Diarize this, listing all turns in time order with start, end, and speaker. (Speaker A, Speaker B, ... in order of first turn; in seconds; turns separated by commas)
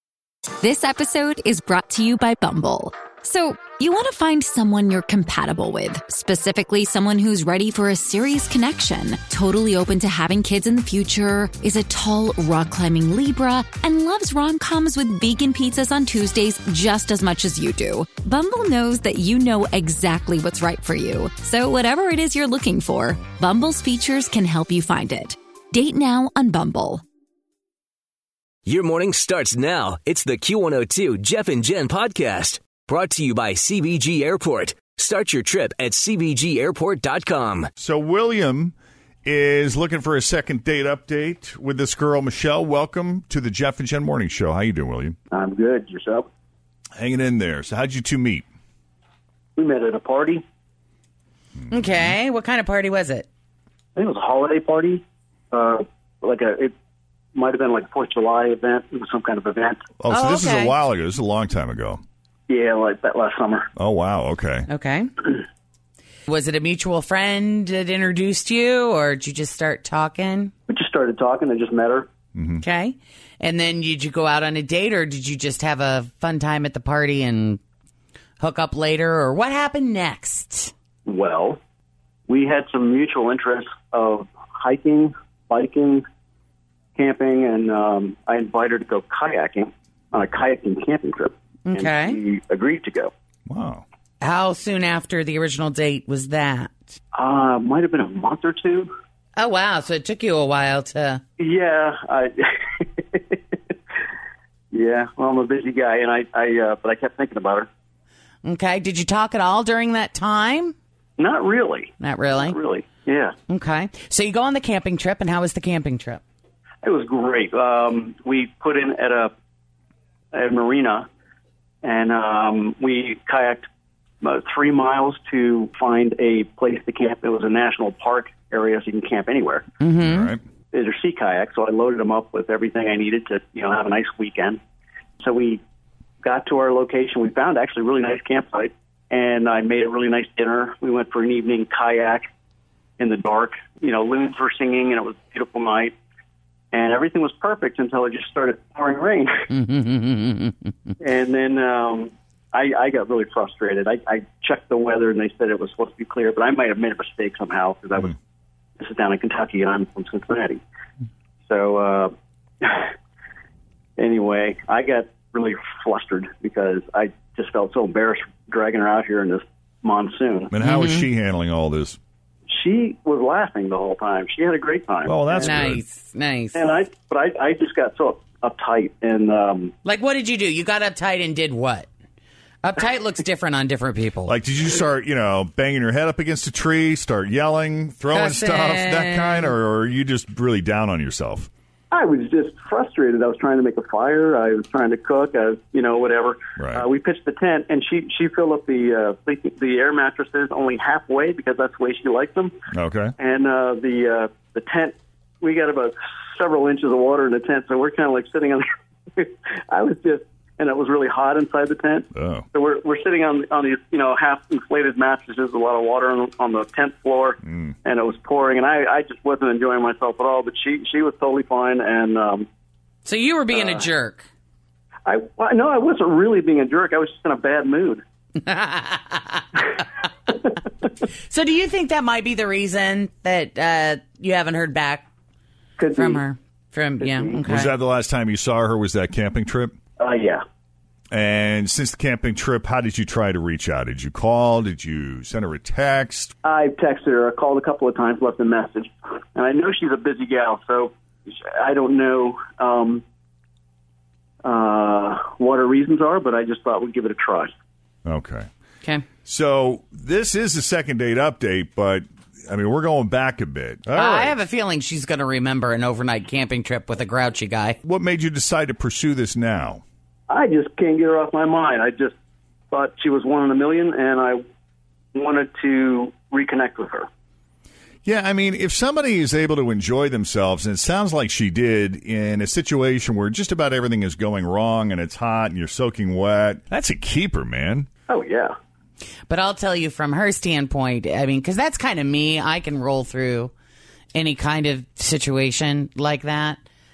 Speaker A: 0.6-27.0, Speaker B: 28.7-37.7, Speaker C: 37.8-45.2, Speaker D: 45.3-46.3, Speaker C: 47.0-48.5, Speaker D: 49.6-50.4, Speaker C: 51.7-52.1, Speaker E: 51.7-53.3, Speaker D: 54.0-56.7, Speaker D: 57.4-59.8, Speaker C: 60.0-62.0, Speaker E: 60.1-60.7, Speaker D: 62.5-63.7, Speaker C: 63.8-64.7, Speaker E: 64.7-65.3, Speaker E: 66.3-70.5, Speaker D: 70.7-72.1, Speaker C: 72.3-72.6, Speaker E: 72.6-77.6, Speaker E: 78.4-80.7, Speaker D: 81.1-81.6, Speaker D: 82.3-86.0, Speaker D: 87.0-93.1, Speaker E: 91.7-92.2, Speaker C: 93.5-93.8, Speaker E: 94.2-97.0, Speaker D: 97.1-98.9, Speaker E: 99.4-101.2, Speaker D: 101.4-103.8, Speaker D: 104.7-107.7, Speaker E: 108.4-110.8, Speaker D: 111.2-113.3, Speaker E: 112.0-112.6, Speaker E: 113.5-116.2, Speaker D: 116.8-119.3, Speaker D: 120.3-121.1, Speaker D: 121.8-123.6, Speaker D: 124.2-129.7, Speaker E: 129.8-130.3, Speaker C: 130.0-130.4, Speaker D: 130.7-134.6, Speaker D: 135.2-135.6, Speaker D: 136.2-142.3, Speaker D: 143.0-145.9, Speaker D: 146.7-149.3, Speaker E: 149.5-150.7, Speaker D: 151.0-158.1, Speaker D: 158.8-160.6, Speaker D: 161.5-162.9, Speaker D: 164.0-170.5, Speaker C: 170.5-172.0, Speaker E: 170.6-171.1, Speaker D: 172.5-175.6, Speaker C: 175.1-175.8, Speaker E: 175.4-176.6, Speaker D: 176.5-179.7, Speaker E: 179.8-181.9, Speaker E: 182.6-184.3, Speaker C: 184.3-191.5, Speaker E: 188.1-189.5, Speaker D: 191.9-202.5, Speaker C: 196.6-196.8, Speaker C: 202.7-203.1, Speaker D: 203.2-208.6, Speaker D: 209.2-222.5, Speaker C: 212.2-212.5, Speaker E: 223.1-224.3, Speaker D: 223.5-223.9, Speaker D: 225.1-228.0, Speaker E: 228.4-229.6, Speaker E: 231.3-235.1, Speaker D: 235.8-236.2, Speaker E: 235.9-237.7, Speaker D: 237.0-237.4, Speaker C: 237.4-239.8, Speaker D: 240.0-240.4, Speaker C: 241.1-246.3, Speaker D: 246.4-253.0, Speaker D: 254.4-257.5, Speaker C: 258.1-258.5, Speaker C: 259.2-264.4, Speaker E: 263.9-267.8, Speaker C: 267.8-269.8, Speaker D: 270.3-272.1, Speaker D: 272.7-274.4, Speaker D: 275.1-277.1, Speaker C: 278.1-287.9, Speaker D: 288.1-288.5, Speaker E: 289.3-293.5, Speaker E: 294.1-296.6